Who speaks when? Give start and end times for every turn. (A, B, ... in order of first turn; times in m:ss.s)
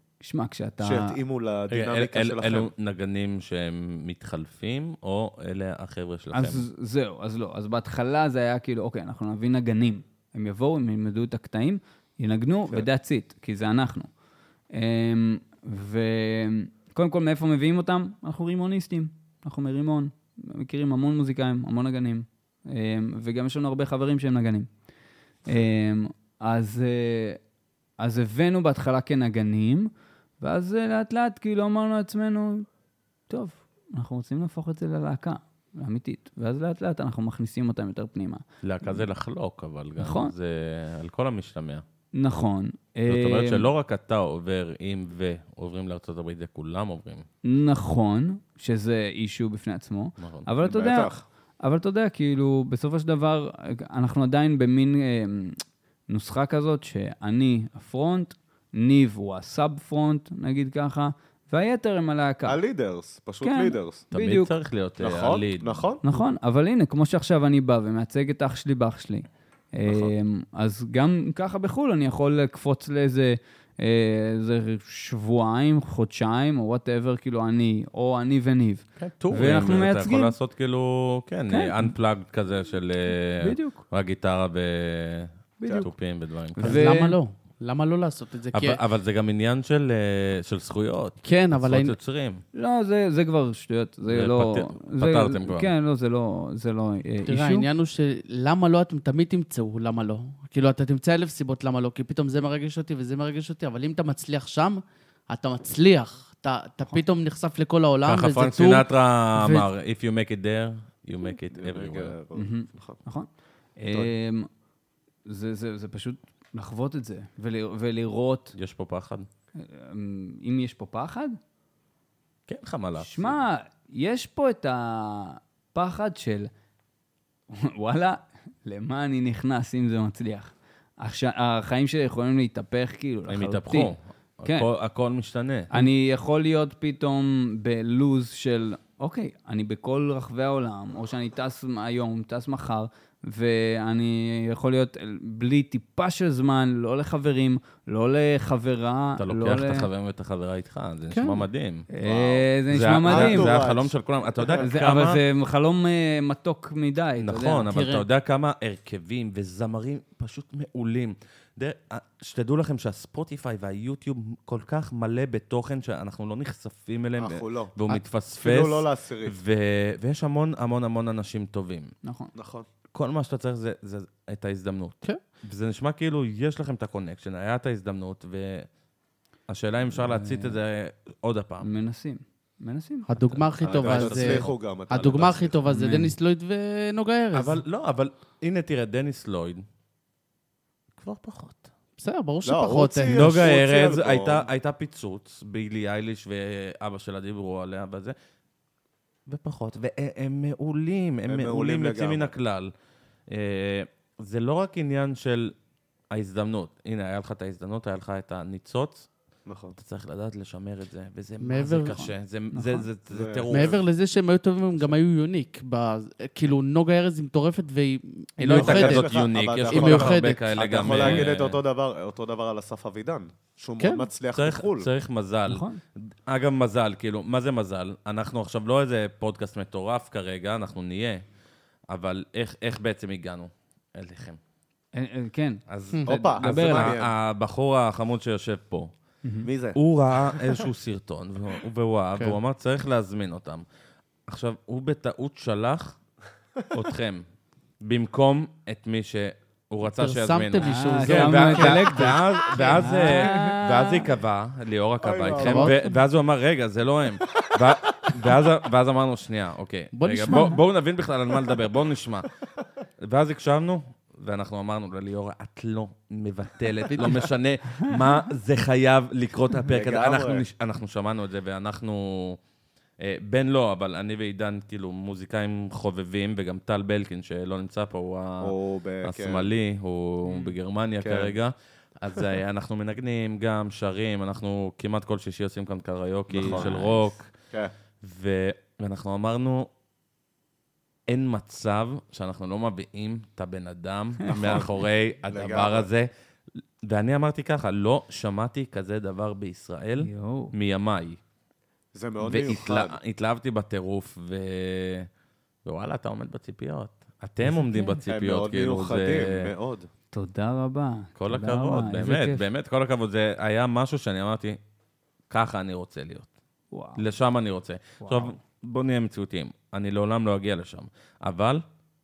0:00.2-0:01.2 A
0:00.8-0:02.7 B
0:01.7-0:06.6 C
0:06.3-0:14.1 A
0:14.7-0:24.7 A
0:25.5-0:27.4 A
0:28.0-0:32.7 A
0:33.3-0:39.0 A
0:38.6-0:41.8 C
0:40.0-0:40.3 A
0:42.1-0:43.7 A
0:43.1-0:47.3 C
0:47.4-0:51.1 A
0:50.2-0:50.5 C
0:50.6-0:51.2 B
0:51.6-1:02.6 A
1:02.4-1:04.0 B
1:03.4-1:04.5 A
1:04.1-1:05.9 C
1:05.0-1:06.0 B
1:06.0-1:20.3 A
1:09.8-1:10.1 B
1:19.0-1:26.9 C
1:21.5-1:21.9 A
1:23.4-1:23.8 A
1:25.6-1:25.9 A
1:26.6-1:28.8 D
1:26.6-1:27.2 A
1:28.5-1:32.4 C
1:31.2-1:32.0 D
1:32.5-1:37.7 A
1:34.1-1:35.7 C
1:37.3-1:49.7 D
1:48.0-1:52.2 C
1:51.5-1:53.0 B
1:52.3-1:54.5 A
1:55.2-1:58.5 A
1:58.5-1:59.3 C
1:59.6-2:01.4 A
2:02.5-2:03.4 C
2:03.0-2:06.5 A
2:07.5-2:13.9 A
2:13.3-2:15.7 C
2:15.7-2:29.9 A
2:29.2-2:31.9 C
2:31.1-2:31.4 D
2:31.9-2:33.5 A
2:32.0-2:32.5 B
2:32.7-2:35.2 C
2:33.0-2:34.7 B
2:34.6-2:37.7 A
2:37.2-2:51.9 C
2:37.7-2:38.0 D
2:47.2-2:47.7 B
2:48.4-2:49.4 B
2:52.0-2:52.3 A
2:52.4-2:52.7 B
2:52.9-2:58.7 C
2:59.5-3:01.7 C
2:59.9-3:00.6 A
3:01.6-3:03.1 A
3:03.1-3:07.6 D
3:03.2-3:05.3 C
3:03.6-3:05.6 B
3:05.7-3:06.1 A
3:07.3-3:09.6 C
3:11.0-3:11.7 C
3:12.0-3:13.4 D
3:12.4-3:14.5 B
3:13.1-3:18.2 C
3:19.3-3:22.7 C
3:21.3-3:22.3 B
3:23.3-3:25.5 C
3:26.1-3:29.1 C
3:29.5-3:29.8 B
3:29.8-3:33.8 C
3:31.4-3:32.0 D
3:32.0-3:32.9 A
3:33.1-3:33.8 B
3:33.5-3:39.1 D
3:38.4-3:41.6 C
3:38.5-3:44.9 B
3:39.7-3:40.4 D
3:40.9-3:41.3 A
3:43.8-3:44.1 D
3:44.3-3:45.6 C
3:45.5-3:45.8 A
3:46.3-3:51.2 C
3:51.9-3:54.4 C
3:54.9-3:55.6 A
3:55.7-3:58.9 C
3:56.1-3:57.1 B
3:56.1-3:57.0 A
3:59.2-3:59.5 A
3:59.4-4:00.6 B
3:59.8-4:03.6 C
4:04.3-4:06.0 C
4:06.7-4:07.2 C
4:07.8-4:22.3 C
4:10.0-4:12.9 D
4:10.6-4:14.1 A
4:15.0-4:15.8 B
4:15.4-4:15.8 D
4:19.9-4:20.6 D
4:23.0-4:32.4 C
4:26.9-4:27.3 D
4:29.7-4:30.5 B
4:33.0-4:47.3 C
4:38.4-4:39.5 B
4:41.0-4:41.4 B
4:46.3-4:46.8 B
4:46.4-4:47.1 A
4:48.0-4:49.7 C
4:51.1-4:56.1 C
4:54.4-4:54.6 B
4:55.3-4:55.9 B
4:56.8-5:01.2 C
5:00.0-5:00.5 A
5:01.9-5:03.0 B
5:02.2-5:05.1 C
5:05.6-5:09.5 C
5:07.4-5:08.0 A
5:08.1-5:09.9 B
5:10.1-5:12.4 A
5:11.2-5:14.6 C
5:15.3-5:16.3 C
5:16.7-5:17.0 A
5:17.0-5:21.6 C
5:18.0-5:18.4 A